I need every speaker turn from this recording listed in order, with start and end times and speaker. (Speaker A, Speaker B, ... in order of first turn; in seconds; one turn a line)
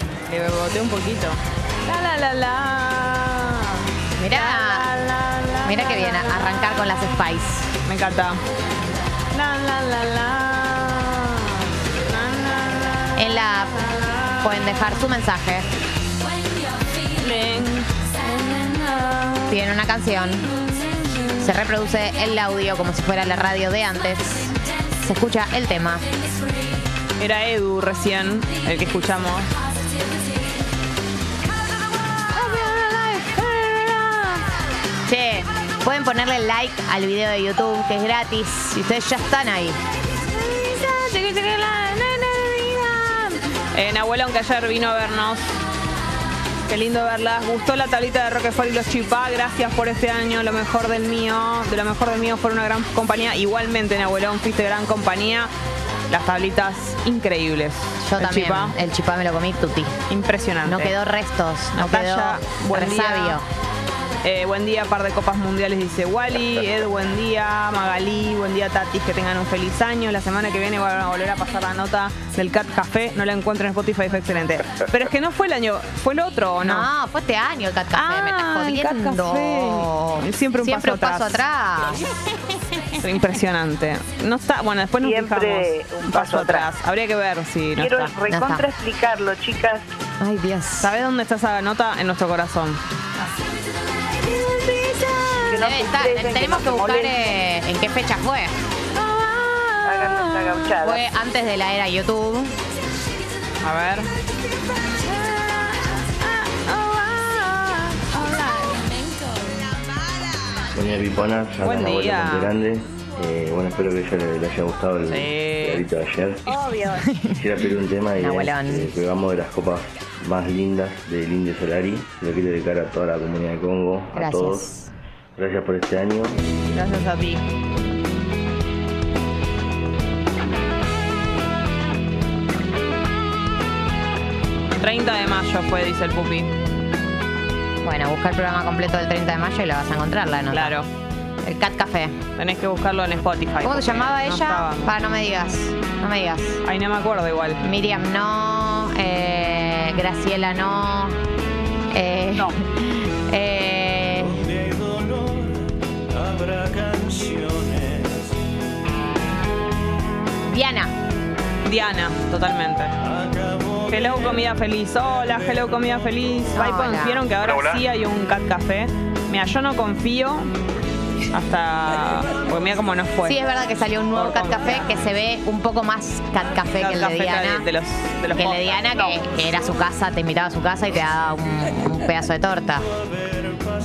Speaker A: 0.3-6.6
Speaker B: 4.2-4.9
Speaker B: 5.7-7.7
Speaker A: 7.8-8.4
Speaker A: 9.3-13.3
Speaker B: 13.2-15.7
Speaker A: 17.2-19.6
Speaker B: 19.5-20.5
Speaker B: 21.4-26.1
Speaker A: 27.2-29.5
Speaker A: 32.3-34.4
Speaker B: 35.1-39.8
Speaker A: 40.3-45.5
Speaker A: 46.7-55.5
Speaker A: 56.1-58.7
Speaker B: 58.0-60.0
Speaker A: 60.1-60.9
Speaker B: 60.6-63.5
Speaker A: 61.8-63.4
Speaker A: 64.2-76.9
Speaker B: 76.6-82.0
Speaker A: 78.0-81.4
Speaker A: 83.0-88.1
Speaker C: 85.0-86.7
Speaker C: 87.8-89.9
Speaker B: 88.3-88.7
Speaker B: 90.2-90.9
Speaker A: 90.8-92.8
Speaker A: 94.6-95.1
Speaker C: 95.5-97.2
Speaker B: 95.6-98.6
Speaker A: 98.9-100.6
Speaker C: 99.8-101.0
Speaker B: 100.8-102.5
Speaker A: 103.6-104.1
Speaker A: 105.0-109.0
Speaker D: 110.7-116.4
Speaker A: 111.6-112.5
Speaker A: 115.1-115.8
Speaker C: 116.5-117.0
Speaker B: 117.0-117.4
Speaker D: 117.3-124.7
Speaker B: 118.2-118.9
Speaker B: 124.1-124.9
Speaker D: 125.4-126.3
Speaker A: 126.7-127.5
Speaker A: 134.8-136.5
Speaker B: 137.8-140.8
Speaker A: 140.5-140.9
Speaker B: 141.4-142.2
Speaker A: 142.4-144.9
Speaker B: 143.6-146.6
Speaker A: 146.6-147.6
Speaker B: 147.6-151.2
Speaker B: 151.9-154.4
Speaker E: 154.5-155.4
Speaker E: 156.4-158.1
Speaker B: 160.5-160.9
Speaker A: 161.7-162.9
Speaker E: 163.3-163.8
Speaker A: 163.9-170.5
Speaker B: 166.6-167.3
Speaker A: 171.3-173.4
Speaker B: 173.2-177.7
Speaker A: 174.2-174.9
Speaker A: 176.8-179.2
Speaker B: 178.3-182.9